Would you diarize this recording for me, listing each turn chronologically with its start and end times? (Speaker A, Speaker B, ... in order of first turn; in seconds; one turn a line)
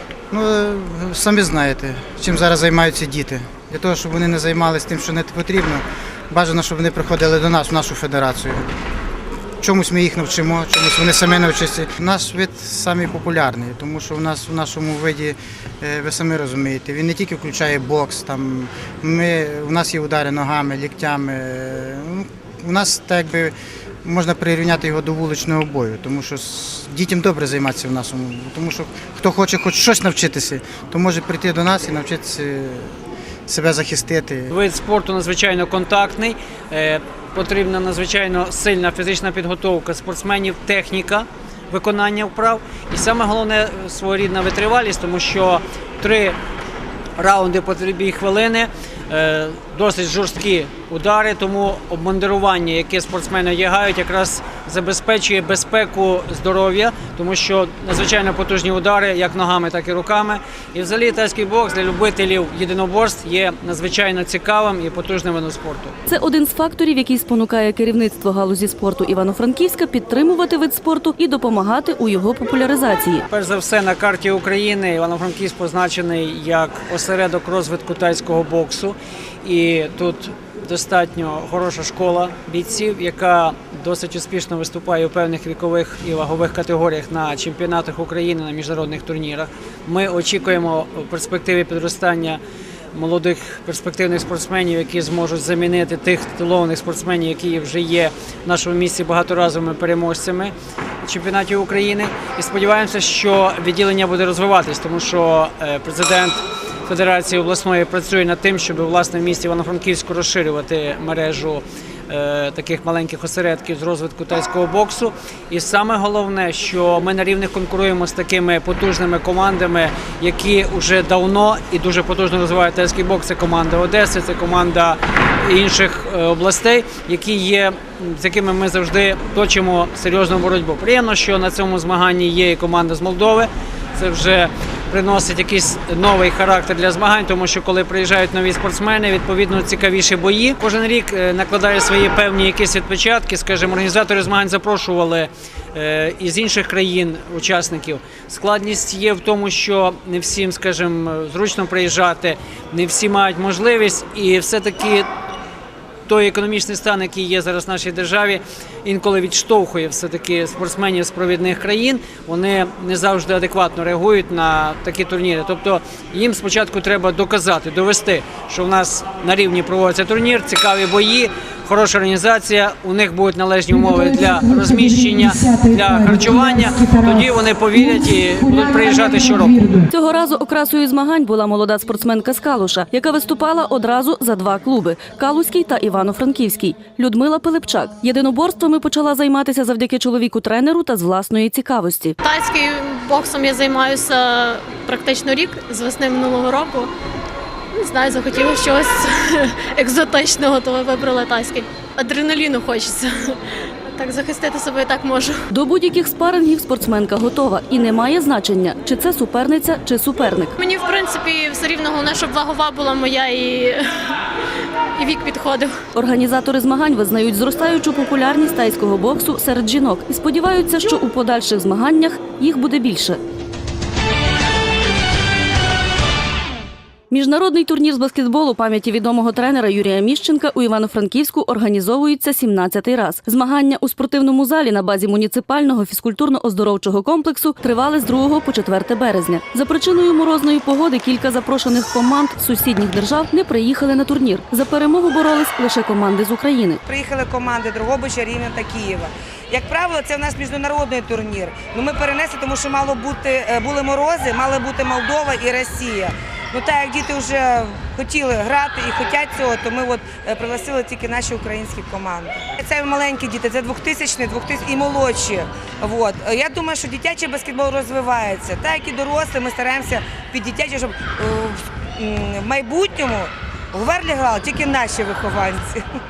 Speaker A: 0.3-8.6
Speaker A: 9.6-34.5
Speaker B: 34.5-46.4
Speaker B: 47.2-66.0
Speaker C: 66.1-73.2
Speaker B: 73.3-92.4
Speaker B: 92.9-155.1
Speaker B: 156.1-179.7
Speaker D: 179.6-179.8
Speaker C: 179.9-192.2
Speaker E: 192.2-196.9
Speaker E: 197.7-203.4
Speaker E: 203.9-205.4
Speaker C: 205.5-210.5
Speaker E: 210.6-214.2
Speaker E: 214.9-215.7
Speaker C: 215.9-223.2
Speaker C: 227.1-246.8
Speaker D: 246.8-275.8